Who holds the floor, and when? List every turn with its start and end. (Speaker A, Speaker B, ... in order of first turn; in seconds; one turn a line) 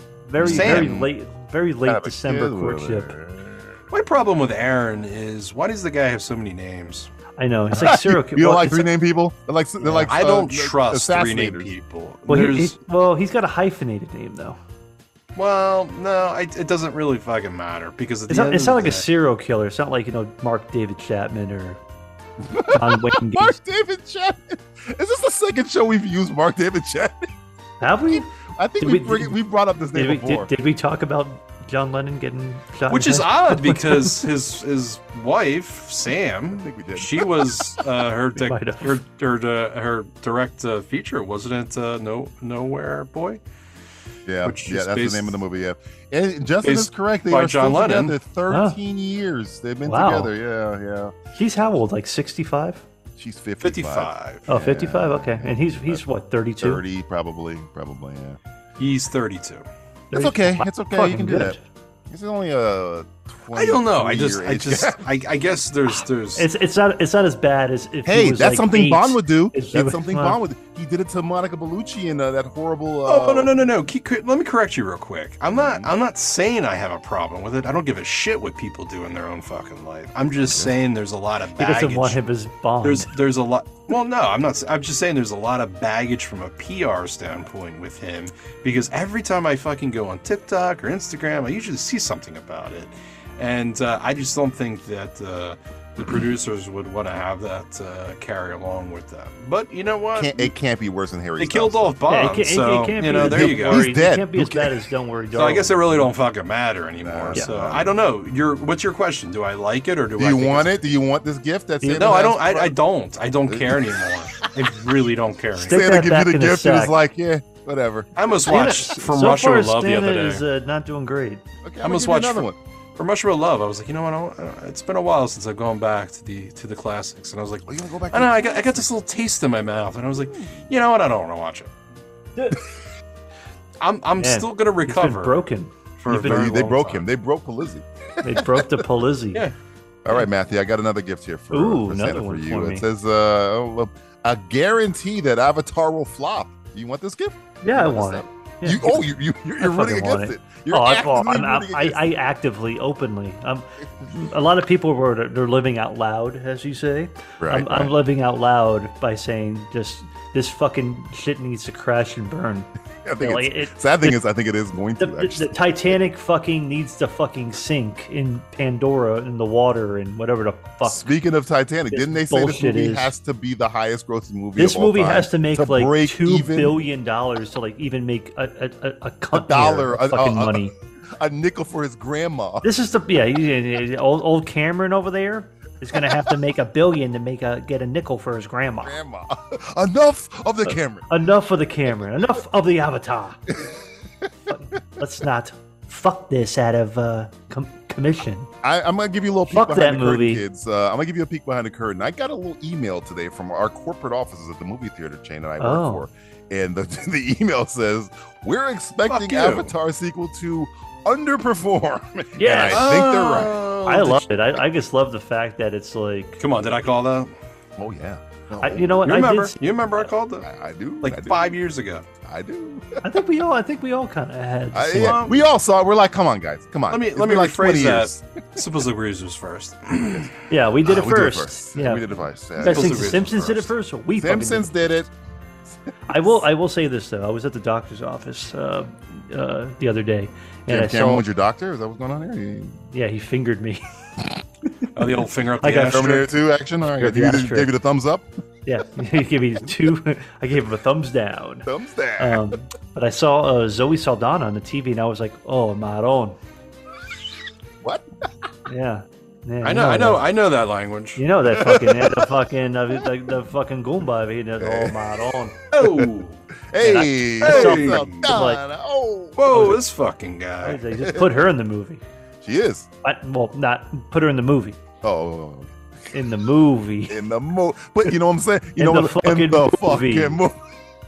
Speaker A: 0.3-3.1
Speaker B: 0.4-1.1
Speaker C: 0.4-1.0
Speaker B: 1.8-3.8
Speaker C: 3.9-7.1
Speaker A: 7.4-8.9
Speaker B: 7.7-11.8
Speaker A: 9.8-10.2
Speaker C: 10.1-12.8
Speaker A: 12.3-14.6
Speaker C: 15.4-19.1
Speaker A: 18.3-21.8
Speaker B: 22.4-27.3
Speaker A: 22.7-23.6
Speaker A: 27.8-29.4
Speaker B: 28.1-30.5
Speaker A: 29.9-34.1
Speaker C: 32.9-43.4
Speaker B: 36.5-37.8
Speaker A: 38.4-39.0
Speaker B: 44.3-51.1
Speaker C: 44.4-45.4
Speaker C: 46.6-48.2
Speaker A: 48.5-48.8
Speaker A: 49.9-50.3
Speaker A: 51.4-52.8
Speaker B: 53.2-56.0
Speaker C: 53.6-54.4
Speaker A: 54.5-56.8
Speaker B: 56.6-58.4
Speaker C: 58.8-59.6
Speaker A: 60.1-61.6
Speaker B: 60.1-61.6
Speaker B: 62.1-65.0
Speaker C: 63.5-66.5
Speaker A: 66.4-70.4
Speaker B: 68.1-73.5
Speaker C: 73.1-82.2
Speaker B: 75.5-75.9
Speaker A: 81.6-83.1
Speaker C: 82.8-100.5
Speaker B: 100.2-101.9
Speaker C: 101.4-103.8
Speaker A: 102.1-106.1
Speaker B: 103.1-104.7
Speaker C: 105.3-110.7
Speaker B: 107.0-108.0
Speaker B: 110.2-112.8
Speaker A: 111.8-112.2
Speaker C: 112.0-115.8
Speaker B: 113.5-113.9
Speaker B: 115.6-118.1
Speaker A: 115.6-117.0
Speaker C: 118.2-120.4
Speaker A: 118.5-121.4
Speaker B: 121.6-122.6
Speaker C: 121.8-131.7
Speaker B: 127.7-128.9
Speaker B: 130.2-130.6
Speaker C: 133.8-135.4
Speaker A: 134.2-136.5
Speaker C: 136.0-137.1
Speaker B: 136.1-138.7
Speaker A: 138.2-139.4
Speaker B: 140.1-152.1
Speaker A: 141.5-142.8
Speaker A: 147.6-149.1
Speaker A: 149.6-162.7
Speaker B: 157.4-157.9
Speaker B: 163.0-165.9
Speaker A: 163.2-164.2
Speaker A: 165.0-171.1
Speaker B: 170.8-176.8
Speaker A: 171.9-173.1
Speaker A: 174.6-180.7
Speaker B: 179.3-182.7
Speaker A: 182.6-189.0
Speaker B: 185.9-186.2
Speaker B: 188.8-191.1
Speaker A: 190.7-193.5
Speaker B: 193.5-193.8
Speaker A: 194.5-198.5
Speaker B: 198.6-213.6
Speaker A: 199.5-200.4
Speaker A: 205.6-206.1
Speaker C: 209.1-209.7
Speaker A: 212.4-212.9
Speaker C: 212.7-214.2
Speaker A: 213.9-216.4
Speaker C: 216.4-217.3
Speaker B: 217.8-219.1
Speaker A: 218.6-219.6
Speaker C: 219.0-220.5
Speaker B: 220.4-221.6
Speaker C: 221.0-222.1
Speaker B: 222.2-223.0
Speaker A: 223.0-225.2
Speaker B: 224.7-228.6
Speaker C: 225.0-225.4
Speaker C: 226.9-230.3
Speaker A: 230.5-235.0
Speaker B: 230.8-233.6
Speaker C: 232.6-233.7
Speaker B: 234.2-235.1
Speaker A: 236.1-241.2
Speaker B: 240.7-242.8
Speaker A: 242.9-243.8
Speaker C: 244.9-246.2
Speaker A: 245.6-246.3
Speaker B: 245.9-248.3
Speaker A: 247.0-247.7
Speaker A: 248.7-251.7
Speaker B: 251.7-252.6
Speaker A: 252.2-256.4
Speaker A: 258.7-260.2
Speaker C: 259.6-261.2
Speaker A: 261.2-265.6
Speaker B: 261.4-262.3
Speaker B: 264.6-265.1
Speaker C: 265.7-266.4
Speaker B: 265.8-266.1
Speaker B: 266.7-269.8
Speaker A: 266.8-268.6
Speaker C: 267.4-268.3
Speaker C: 269.4-270.8
Speaker A: 269.5-269.8
Speaker A: 270.6-272.0
Speaker B: 271.0-271.3
Speaker B: 272.4-272.9
Speaker A: 273.0-274.8
Speaker B: 275.0-275.8
Speaker A: 276.1-277.2
Speaker B: 277.1-280.6
Speaker A: 278.8-280.4